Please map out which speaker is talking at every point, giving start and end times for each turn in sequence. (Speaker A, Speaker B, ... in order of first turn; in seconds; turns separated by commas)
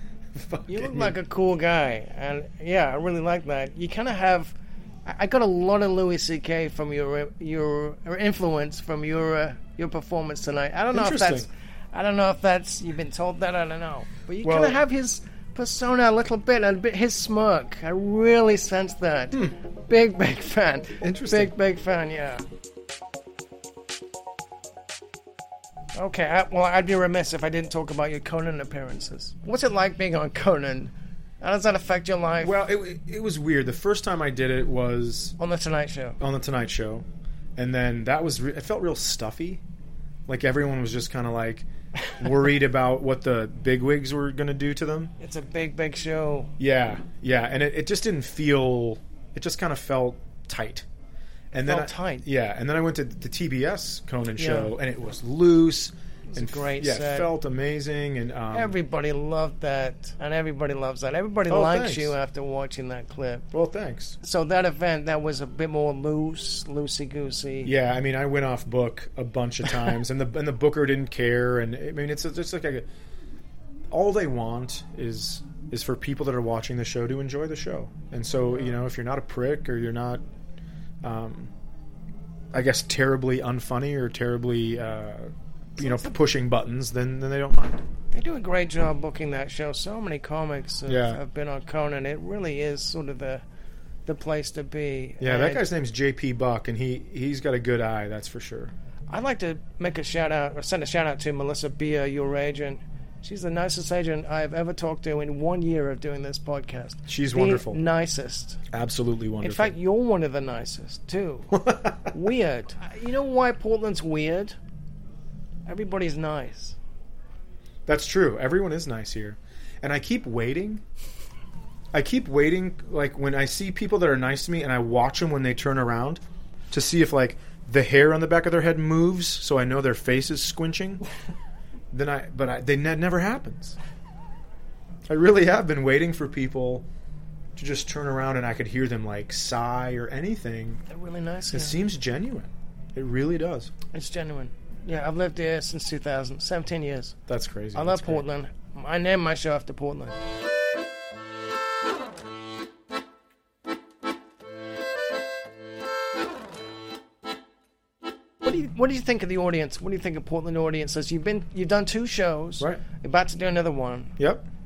Speaker A: 0.3-1.1, Speaker B: 0.7-22.4, Speaker A: 10.9-11.5, Speaker A: 14.4-14.8, Speaker A: 21.0-21.5, Speaker B: 25.9-32.6, Speaker A: 32.4-35.4, Speaker B: 35.4-36.2, Speaker A: 36.2-37.0, Speaker A: 37.6-39.6, Speaker A: 40.3-45.1, Speaker B: 45.2-46.5, Speaker A: 46.6-50.9, Speaker A: 51.5-58.7, Speaker B: 51.6-52.2, Speaker B: 54.4-54.7, Speaker B: 56.3-57.3, Speaker B: 58.5-63.5, Speaker A: 61.5-62.1, Speaker A: 63.5-64.2, Speaker B: 64.2-67.7, Speaker A: 67.6-72.8, Speaker A: 73.9-80.2, Speaker B: 78.5-78.8, Speaker A: 81.0-81.5, Speaker A: 82.5-87.8, Speaker B: 85.8-86.1, Speaker B: 88.1-93.4, Speaker A: 90.9-91.2, Speaker B: 94.0-95.6, Speaker A: 95.2-98.7, Speaker B: 99.1-108.6, Speaker A: 107.1-107.8, Speaker A: 108.7-109.7, Speaker B: 109.4-114.6, Speaker A: 111.5-112.1, Speaker B: 115.7-116.8, Speaker A: 117.9-120.8, Speaker A: 121.9-131.0, Speaker A: 131.9-133.8, Speaker A: 135.1-136.8, Speaker A: 137.6-140.8, Speaker B: 140.9-141.8, Speaker A: 141.5-143.7, Speaker B: 143.9-147.2, Speaker A: 147.3-148.2, Speaker B: 147.7-150.2, Speaker B: 158.4-164.1, Speaker A: 164.2-164.4